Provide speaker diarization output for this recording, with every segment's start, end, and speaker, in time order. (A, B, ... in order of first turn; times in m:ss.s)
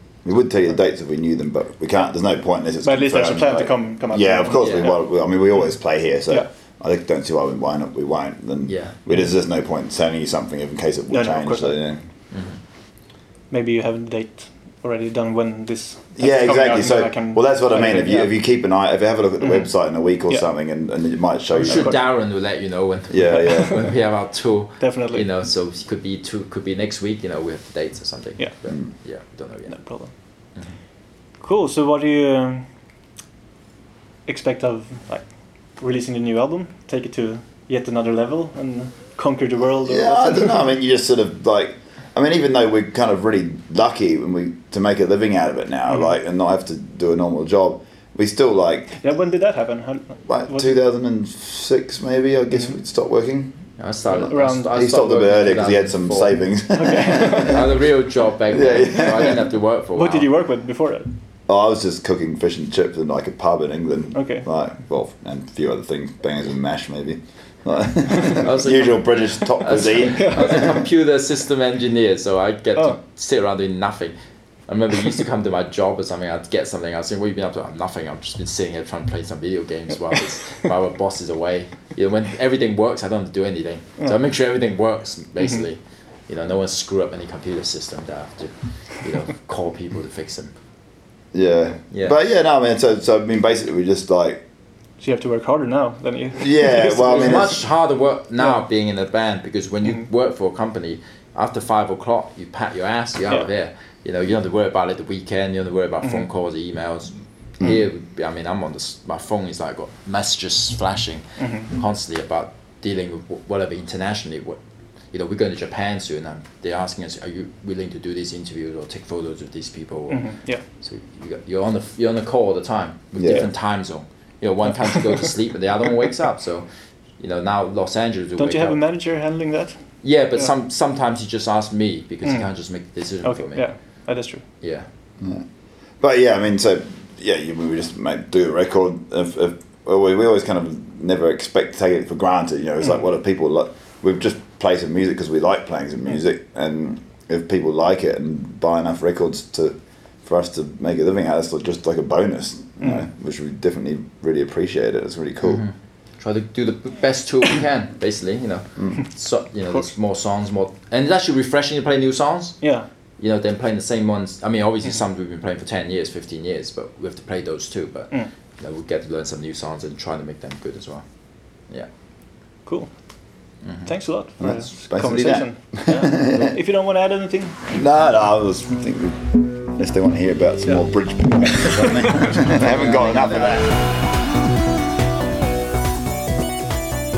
0:00.2-0:12.0 A
0:02.8-0:05.0 B
0:04.6-0:04.9 C
0:08.7-0:09.0 C
0:11.1-0:11.8 B
0:12.3-0:12.6 C
0:13.5-0:18.3 B
0:16.2-0:22.0 A
0:19.4-0:19.7 B
0:21.6-0:22.0 B
0:21.6-0:29.8 C
0:23.1-0:23.8 A
0:24.8-0:25.2 B
0:29.7-0:30.1 B
0:31.4-0:32.6 B
0:34.2-0:35.2 B
0:35.8-0:40.6 B
0:39.8-0:49.0 A
0:49.0-0:50.8 B
0:50.3-0:53.5 A
0:53.8-0:56.4 C
0:54.1-0:57.7 A
0:54.3-0:54.7 B
0:56.7-0:57.6 B
0:57.1-1:00.3 C
0:58.5-0:59.4 A
1:00.0-1:01.1 B
1:01.5-1:10.7 A
1:04.1-1:04.4 B
1:08.3-1:14.1 C
1:10.1-1:10.7 B
1:14.7-1:30.5 C
1:31.3-1:34.4 A
1:31.9-1:32.2 C
1:35.0-1:37.6 B
1:36.4-1:37.6 A
1:37.1-1:54.6 C
1:51.4-1:51.7 B
1:55.1-2:06.6 C
2:00.1-2:00.6 B
2:03.1-2:03.5 A
2:07.2-2:08.8 C
2:08.4-2:09.8 B
2:10.0-2:13.7 C
2:13.2-2:14.4 B
2:14.6-2:14.9 C
2:16.0-2:35.6 A
2:35.4-2:42.6 C
2:42.6-2:42.8 B
2:43.2-2:51.0 C
2:53.6-2:53.9 C
2:53.8-2:57.6 B
2:54.4-2:56.6 A
2:57.7-3:03.8 A
3:02.0-3:02.4 B
3:02.5-3:03.6 C